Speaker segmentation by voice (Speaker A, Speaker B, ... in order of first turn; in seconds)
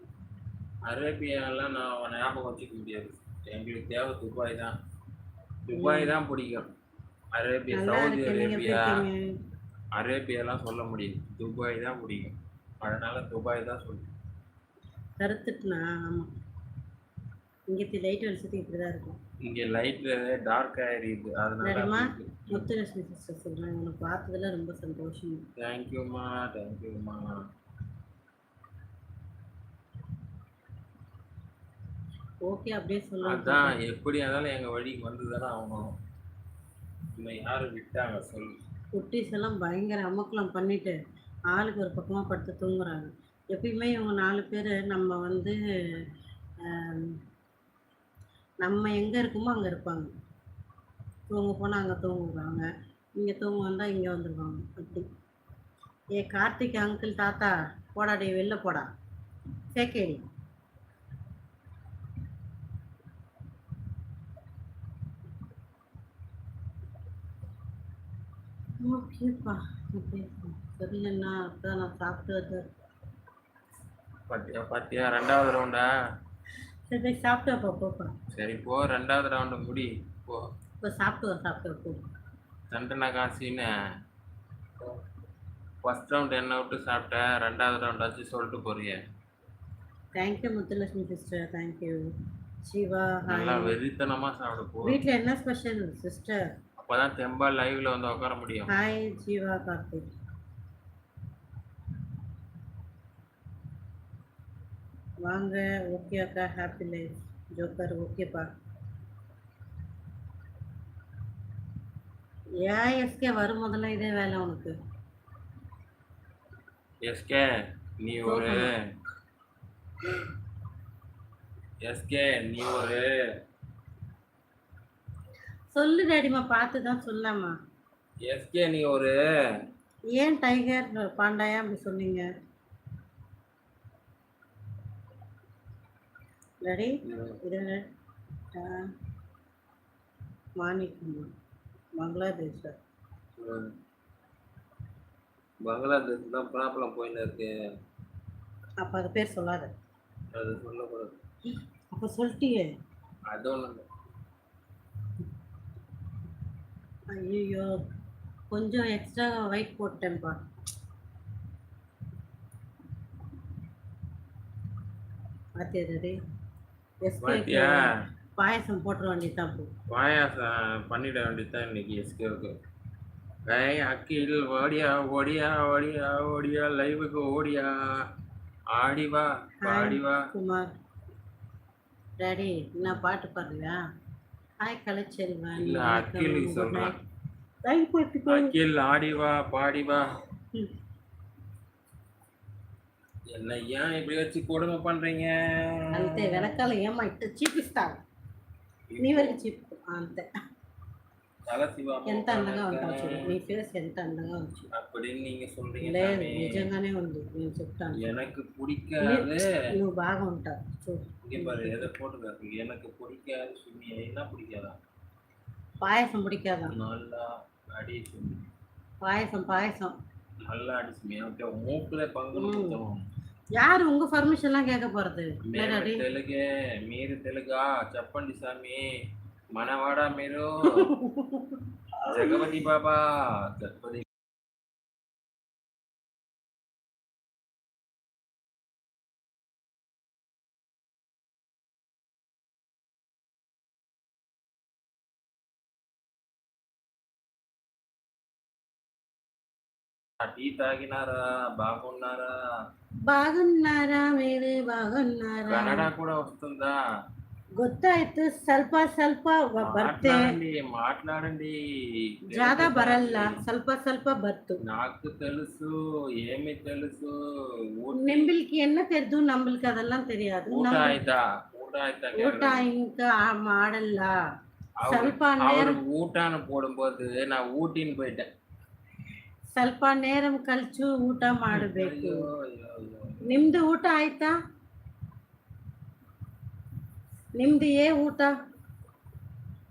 Speaker A: 0.8-4.7, 5.7-6.7, 7.3-9.1, 9.9-14.1, 19.4-22.6, 25.6-27.4, 33.2-35.8, 37.1-38.5, 74.3-75.9, 78.3-80.4, 82.7-83.7, 85.8-89.0, 93.3-95.0, 96.8-98.7, 117.0-117.5, 118.0-118.7, 121.8-123.1, 128.2-129.1, 137.1-137.4, 143.4-143.6, 145.6-147.5, 150.3-151.2, 153.3-153.8, 167.2-167.8, 169.9-172.5, 173.5-177.8, 178.7-180.2, 185.6-187.0, 188.3-190.1, 193.3-196.6, 198.9-199.4, 201.5-203.3, 204.7-206.7, 208.0-209.5, 211.2-214.7, 216.7-218.4, 220.4-223.0, 225.4-228.8, 229.5-230.9, 232.0-234.1, 250.2-252.3, 255.5-256.8, 259.6-261.6, 262.2-263.4, 264.6-267.1, 267.8-268.3, 270.5-272.7, 274.8-278.3, 281.5-283.5
Speaker B: 5.7-6.2, 7.7-9.3, 15.2-16.3, 17.7-19.2, 21.6-25.4, 32.5-33.7, 38.9-41.0, 41.5-45.6, 46.6-47.2, 48.6-50.1, 51.3-55.1, 56.1-58.9, 59.7-60.2, 68.8-72.7, 76.9-78.1, 80.8-82.0, 90.2-92.0, 92.7-93.8, 94.8-96.4, 98.7-100.0, 105.2-108.5, 112.6-114.8, 118.2-118.7, 125.7-127.5, 130.1-132.3, 136.6-137.8, 138.6-138.8, 140.6-141.3, 142.0-142.8, 148.8-149.7, 151.9-152.7, 157.1-157.7, 158.5-160.3, 165.6-166.2, 167.0-167.8, 168.4-169.7, 179.6-180.7, 182.2-183.8, 184.6-186.9, 187.6-188.5, 195.9-198.0, 199.0-200.3, 202.1-204.7, 205.8-208.0, 209.0-211.8, 215.8-216.7, 219.0-219.9, 222.3-222.8, 223.6-226.0, 230.7-232.5, 253.1-255.9, 257.6-260.3, 262.3-264.6, 267.9-271.0, 272.1-274.1, 274.9-275.8, 279.6-282.2, 283.2-284.3, 287.4-288.3